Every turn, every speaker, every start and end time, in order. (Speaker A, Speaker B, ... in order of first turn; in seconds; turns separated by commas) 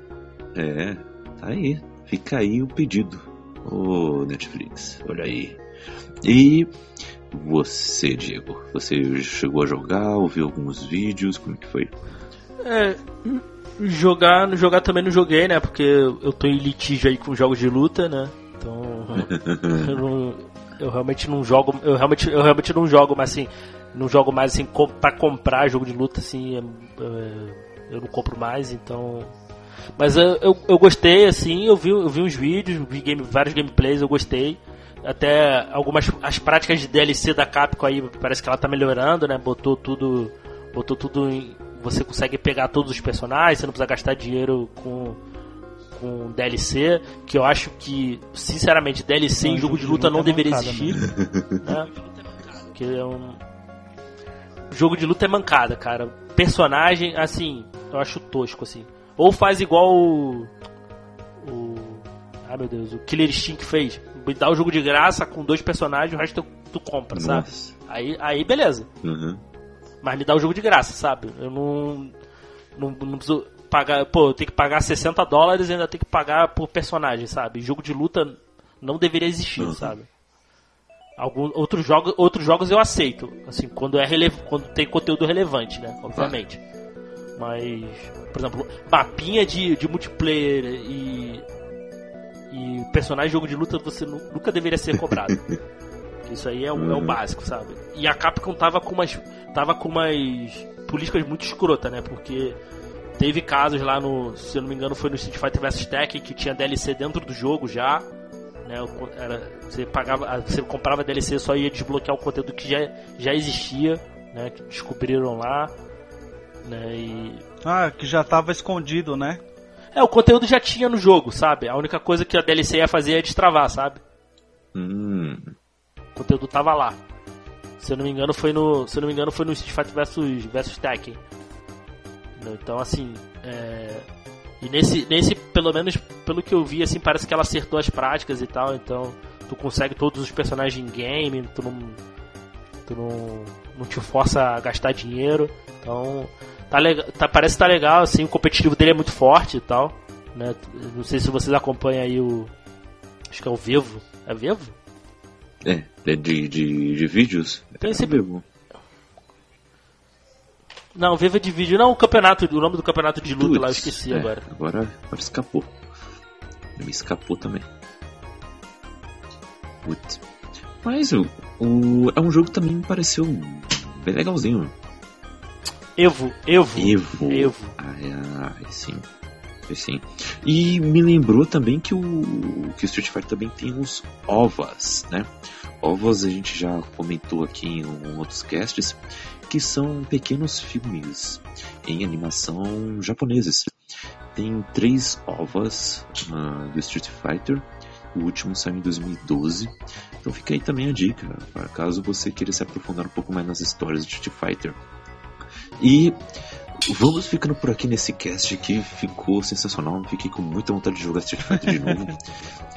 Speaker A: 0.6-5.6, Speaker A: 6.2-6.7, Speaker A: 7.3-11.9, Speaker B: 12.6-29.3, Speaker A: 19.2-19.9, Speaker B: 30.0-45.2, Speaker B: 46.0-51.0, Speaker C: 49.4-51.1, Speaker A: 51.1-51.6, Speaker B: 51.6-51.9, Speaker B: 52.5-53.4, Speaker B: 54.7-60.5, Speaker B: 61.4-68.9, Speaker A: 67.1-67.7, Speaker A: 69.0-69.4, Speaker B: 70.0-72.1, Speaker B: 72.8-80.1, Speaker A: 79.6-80.0, Speaker B: 81.2-86.6, Speaker A: 86.1-86.4, Speaker B: 87.4-91.5, Speaker B: 92.5-95.4, Speaker A: 95.1-95.5, Speaker B: 96.3-102.6, Speaker A: 96.8-97.2, Speaker B: 103.2-108.1, Speaker B: 108.7-115.7, Speaker B: 116.6-117.4, Speaker C: 117.6-119.4, Speaker B: 119.9-124.0, Speaker A: 124.7-125.5, Speaker B: 126.2-127.0, Speaker B: 127.8-131.2, Speaker B: 132.4-134.1, Speaker B: 134.6-142.0, Speaker B: 142.9-152.5, Speaker B: 153.3-154.8, Speaker A: 155.6-158.4, Speaker B: 157.8-158.2, Speaker B: 160.9-164.5, Speaker A: 163.3-165.8, Speaker A: 166.8-167.7, Speaker A: 169.8-170.2, Speaker A: 170.8-174.7, Speaker B: 176.0-177.8, Speaker A: 176.8-179.1, Speaker A: 179.7-193.8, Speaker A: 194.3-204.8, Speaker A: 205.8-212.2